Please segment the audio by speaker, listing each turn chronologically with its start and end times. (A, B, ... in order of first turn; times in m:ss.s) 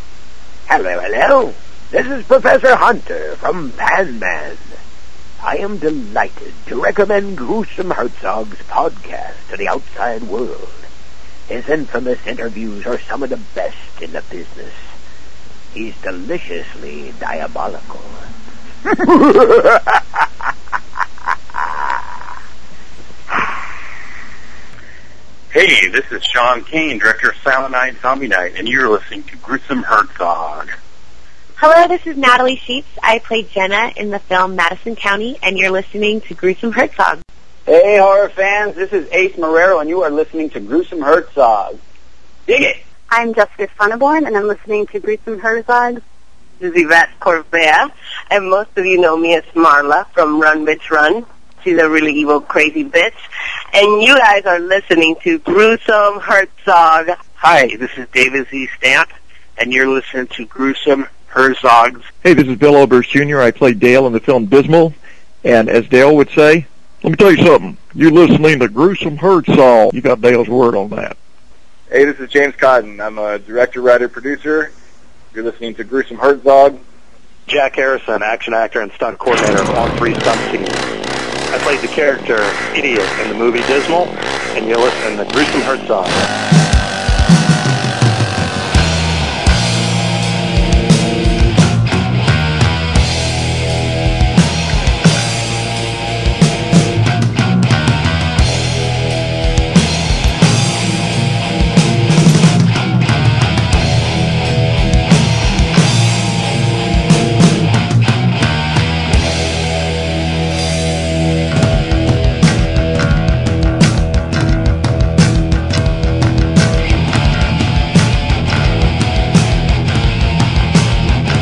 0:00.7-0:04.8 A
0:05.4-0:10.9 A
0:11.5-0:14.8 A
0:15.7-0:18.2 A
0:18.9-0:20.0 A
0:25.5-0:30.7 B
0:31.6-0:37.2 C
0:37.6-0:41.8 D
0:42.5-0:42.8 D
0:43.1-0:46.0 E
0:46.6-0:53.2 F
0:53.7-0:57.2 F
0:57.4-1:02.1 G
1:02.2-1:11.2 H
1:11.9-1:14.7 I
1:15.3-1:16.8 I
1:17.5-1:20.8 J
1:21.5-1:26.2 J